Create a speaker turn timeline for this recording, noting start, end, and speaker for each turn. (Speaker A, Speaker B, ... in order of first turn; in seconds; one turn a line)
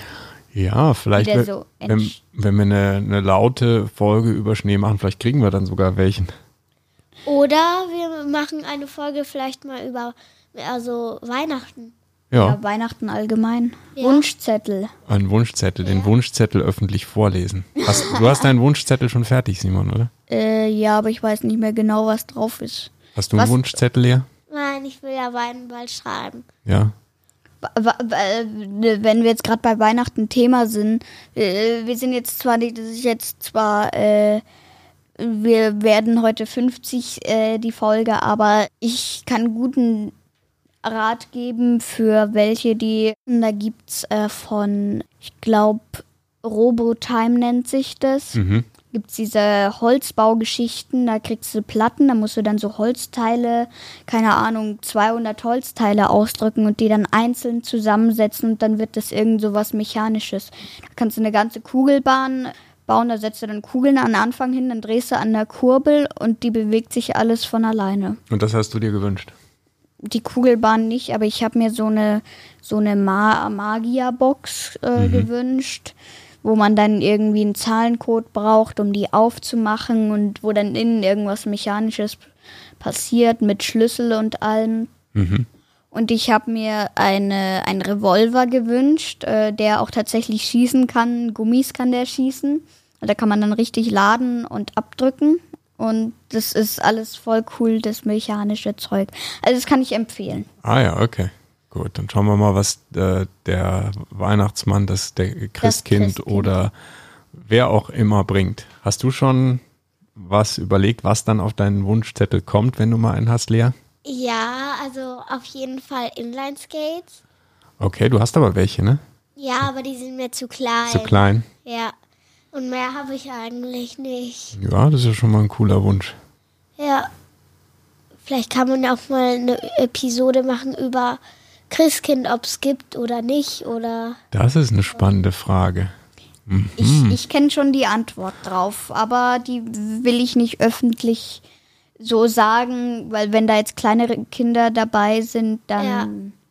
Speaker A: 0.5-6.3
Speaker B: 1.2-2.1
Speaker C: 7.2-11.9
Speaker A: 12.3-12.6
Speaker B: 12.3-14.9
Speaker C: 13.9-14.2
Speaker A: 15.1-20.1
Speaker C: 15.8-16.1
Speaker B: 17.8-18.5
Speaker B: 20.3-23.7
Speaker A: 23.1-24.3
Speaker C: 24.5-26.4
Speaker A: 26.6-26.9
Speaker B: 27.6-34.4
Speaker B: 35.2-40.1
Speaker B: 40.8-48.4
Speaker A: 48.3-48.7
Speaker B: 48.9-68.2
Speaker A: 68.3-69.3
Speaker B: 70.0-82.3
Speaker A: 75.0-75.3
Speaker B: 82.8-84.9
Speaker A: 85.1-85.5
Speaker B: 85.9-100.5
Speaker A: 100.6-106.7
Speaker B: 105.6-106.6
Speaker A: 107.3-109.6
Speaker A: 110.2-113.7
Speaker C: 114.0-117.2
Speaker A: 117.8-119.0
Speaker C: 119.4-121.9
Speaker A: 120.9-121.5
Speaker C: 122.5-124.5
Speaker A: 124.5-126.2
Speaker C: 126.8-127.1
Speaker C: 128.2-134.2
Speaker A: 134.3-135.9
Speaker A: 136.5-137.2
Speaker B: 136.8-141.4
Speaker B: 142.0-146.3
Speaker C: 145.8-146.1